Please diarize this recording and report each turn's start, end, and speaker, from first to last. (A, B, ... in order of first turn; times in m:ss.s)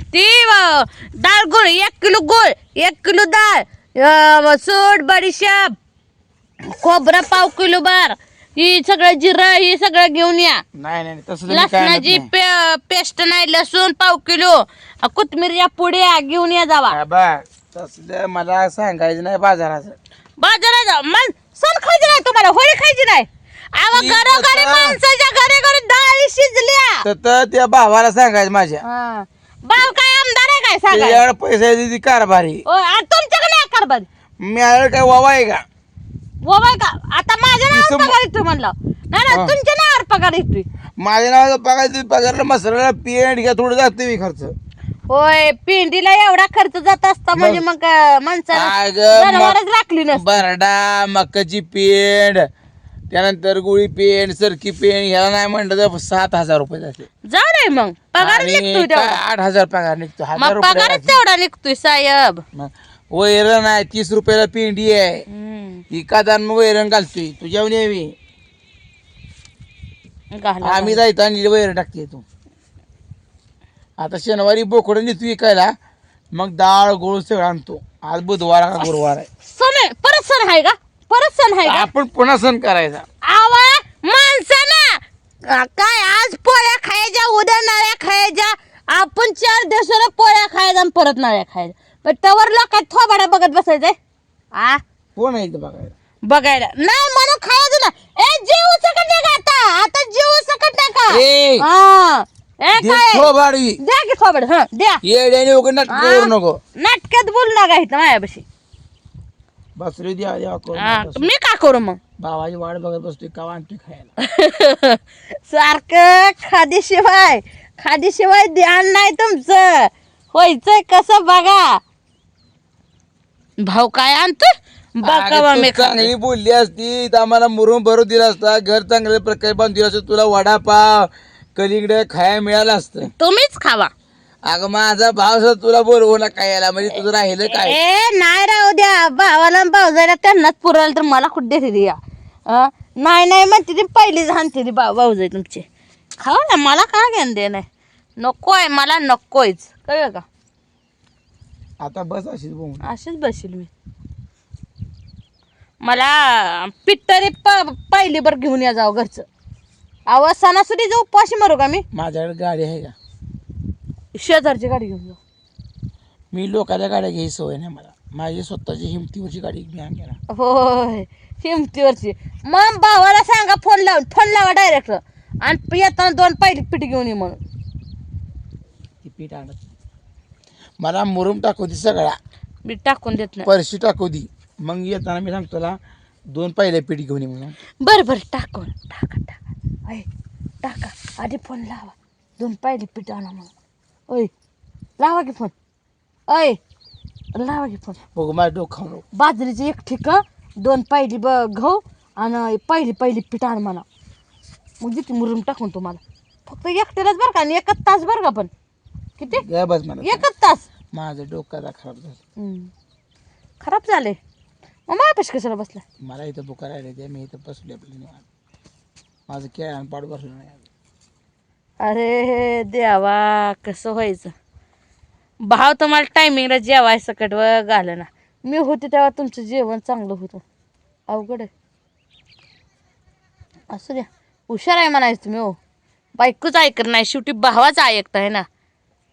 0:00.1-0:05.7 A
0:06.7-0:10.6 A
0:10.7-0:12.3 B
0:11.5-0:17.0 A
0:16.9-0:20.0 B
0:20.4-0:27.0 A
0:23.9-0:25.0 B
0:27.0-0:28.8 B
0:28.8-0:31.2 A
0:30.9-0:32.6 B
0:32.6-0:34.1 A
0:34.4-0:35.6 B
0:36.4-0:40.6 A
0:37.7-0:38.2 B
0:39.3-0:39.6 B
0:41.0-0:44.5 B
0:45.1-0:50.4 A
0:47.3-0:47.6 B
0:48.5-0:49.6 B
0:50.1-0:52.4 B
0:53.1-0:57.1 B
0:57.3-0:59.2 A
0:58.2-1:01.2 B
1:00.4-1:02.4 A
1:02.5-1:05.2 B
1:05.3-1:05.8 A
1:05.9-1:08.1 B
1:10.3-1:11.0 A
1:10.6-1:12.2 B
1:14.0-1:15.7 B
1:16.4-1:19.3 B
1:19.4-1:21.9 A
1:21.6-1:23.0 B
1:23.2-1:34.0 A
1:34.5-1:34.8 A
1:35.1-1:35.9 B
1:36.2-1:43.3 A
1:41.1-1:41.7 B
1:42.8-1:43.8 B
1:43.8-1:45.0 A
1:45.0-1:46.6 B
1:45.9-1:48.4 A
1:49.8-1:51.3 B
1:50.8-1:52.0 A
1:52.2-1:54.1 B
1:54.2-2:01.8 A
2:03.6-2:06.1 A
2:05.0-2:13.1 B
2:13.1-2:13.9 A
2:14.4-2:17.8 B
2:17.5-2:25.6 A
2:26.2-2:27.7 A
2:28.2-2:30.2 A
2:31.8-2:32.9 B
2:32.8-2:33.7 A
2:35.8-2:39.3 A
2:40.1-2:41.8 A
2:41.9-2:42.9 B
2:44.1-2:45.2 A
2:46.3-2:50.2 B
2:50.3-2:57.4 A
2:59.0-2:59.7 B
3:00.8-3:02.2 B
3:02.6-3:03.5 A
3:03.4-3:05.8 B
3:06.3-3:07.6 B
3:07.8-3:10.1 A
3:10.6-3:13.5 A
3:15.0-3:15.5 A
3:16.3-3:16.6 A
3:17.3-3:18.0 A
3:18.1-3:19.0 B
3:19.1-3:23.8 A
3:24.8-3:28.5 A
3:29.2-3:29.4 A
3:29.3-3:30.2 B
3:30.0-3:30.6 A
3:30.9-3:32.2 B
3:32.4-3:32.7 A
3:33.6-3:34.2 A
3:34.9-3:35.8 A
3:36.0-3:38.2 B
3:39.3-3:40.6 B
3:41.8-3:44.3 A
3:45.4-3:50.4 A
3:51.1-3:51.5 A
3:53.7-3:55.6 A
3:56.2-3:58.4 A